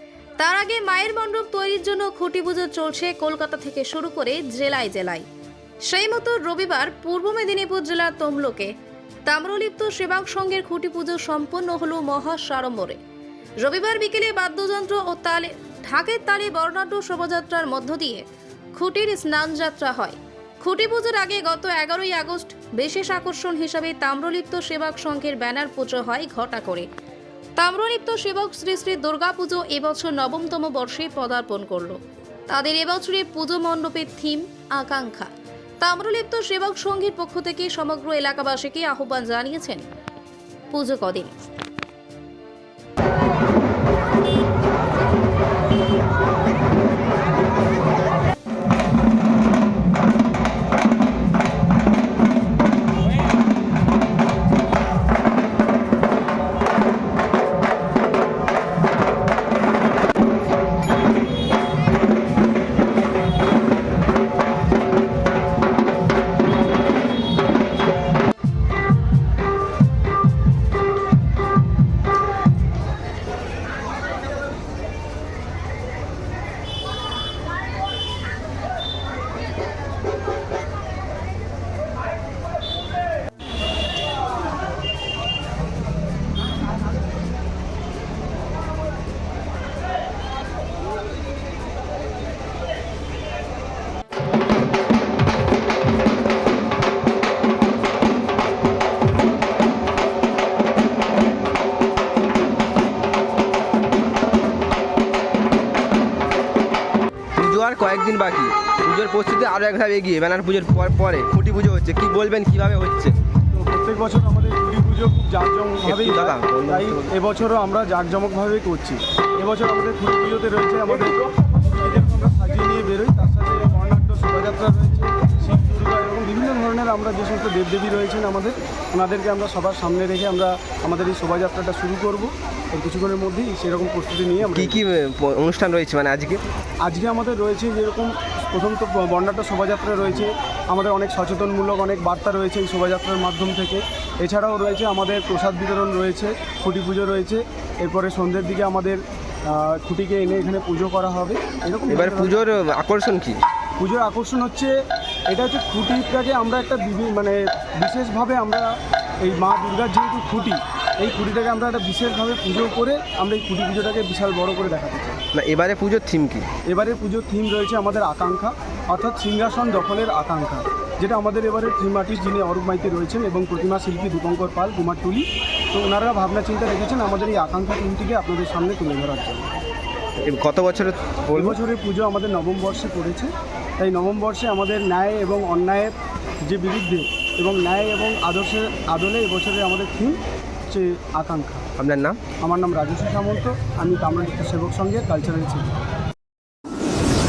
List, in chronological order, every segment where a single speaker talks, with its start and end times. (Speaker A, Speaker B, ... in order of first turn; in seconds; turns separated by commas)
Speaker A: 0.4-5.3, Speaker A: 5.9-8.7, Speaker A: 9.3-13.0, Speaker A: 13.6-18.3, Speaker A: 18.8-26.9, Speaker A: 27.6-39.9, Speaker A: 40.7-41.4, Speaker B: 107.4-113.1, Speaker C: 113.5-134.8, Speaker B: 115.8-117.1, Speaker B: 134.4-136.4, Speaker C: 136.8-152.4, Speaker B: 151.9-153.4, Speaker C: 153.8-154.7, Speaker C: 155.3-165.2, Speaker B: 165.3-166.5, Speaker C: 166.7-179.5, Speaker B: 180.2-181.6, Speaker C: 181.3-185.9, Speaker C: 186.5-191.7, Speaker B: 191.8-192.2, Speaker C: 192.4-195.7